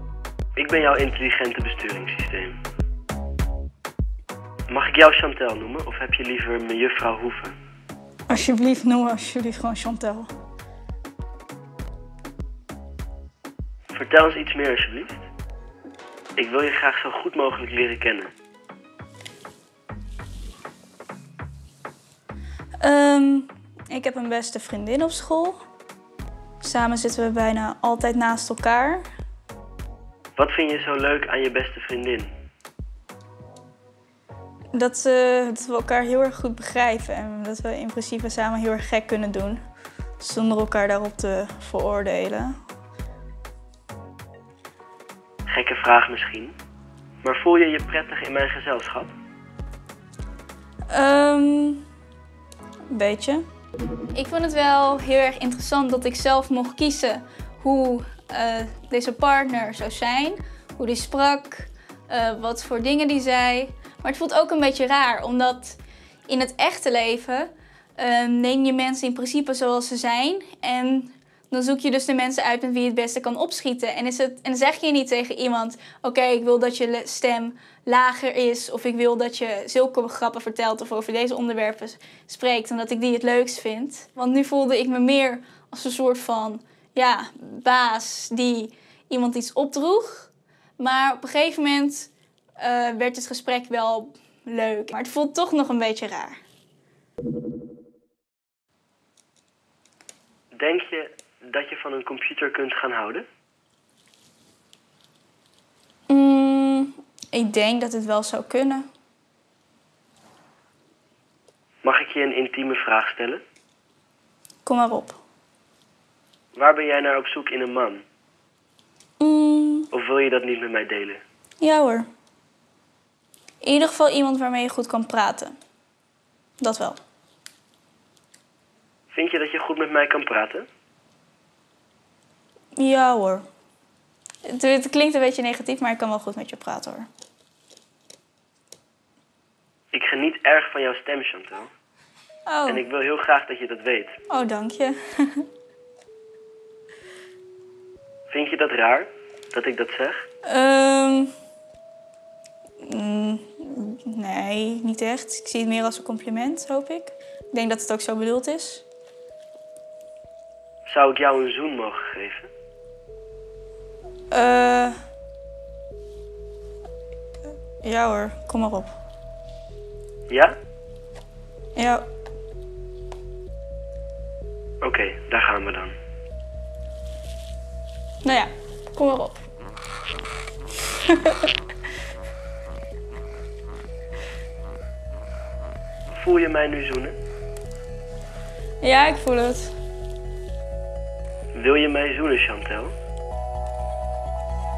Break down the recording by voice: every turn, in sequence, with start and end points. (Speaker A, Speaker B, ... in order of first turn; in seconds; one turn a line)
Speaker A: 0.6-2.5
Speaker A: 4.7-7.5
Speaker B: 8.3-10.3
Speaker A: 13.9-15.2
Speaker A: 16.4-18.3
Speaker B: 22.8-25.6
Speaker B: 26.6-29.0
Speaker A: 30.4-32.3
Speaker B: 34.7-39.6
Speaker B: 40.2-42.5
Speaker A: 45.5-46.5
Speaker A: 47.2-49.1
Speaker B: 50.9-51.8
Speaker B: 52.9-53.4
Speaker B: 54.1-96.4
Speaker A: 100.6-103.2
Speaker B: 106.1-108.8
Speaker A: 111.8-113.4
Speaker B: 114.6-115.2
Speaker A: 116.5-118.0
Speaker B: 119.2-119.9
Speaker A: 119.9-121.2
Speaker B: 121.6-122.1
Speaker B: 123.6-125.5
Speaker B: 126.6-127.0
Speaker A: 129.1-130.7
Speaker B: 132.8-133.4
Speaker B: 134.5-137.1
Speaker A: 139.9-141.7
Speaker B: 142.5-142.8
Speaker A: 142.7-144.2
Speaker B: 144.3-145.4
Speaker A: 148.3-150.2
Speaker B: 150.4-151.3
Speaker B: 152.8-158.8
Speaker A: 160.9-162.5
Speaker B: 164.3-164.9
Speaker B: 167.8-168.9
Speaker A: 170.3-170.5
Speaker B: 171.8-172.0
Speaker A: 174.8-175.9
Speaker B: 178.2-179.4
Speaker B: 181.1-181.4
Speaker A: 186.1-187.1
Speaker B: 188.8-189.7
Speaker A: 191.5-192.9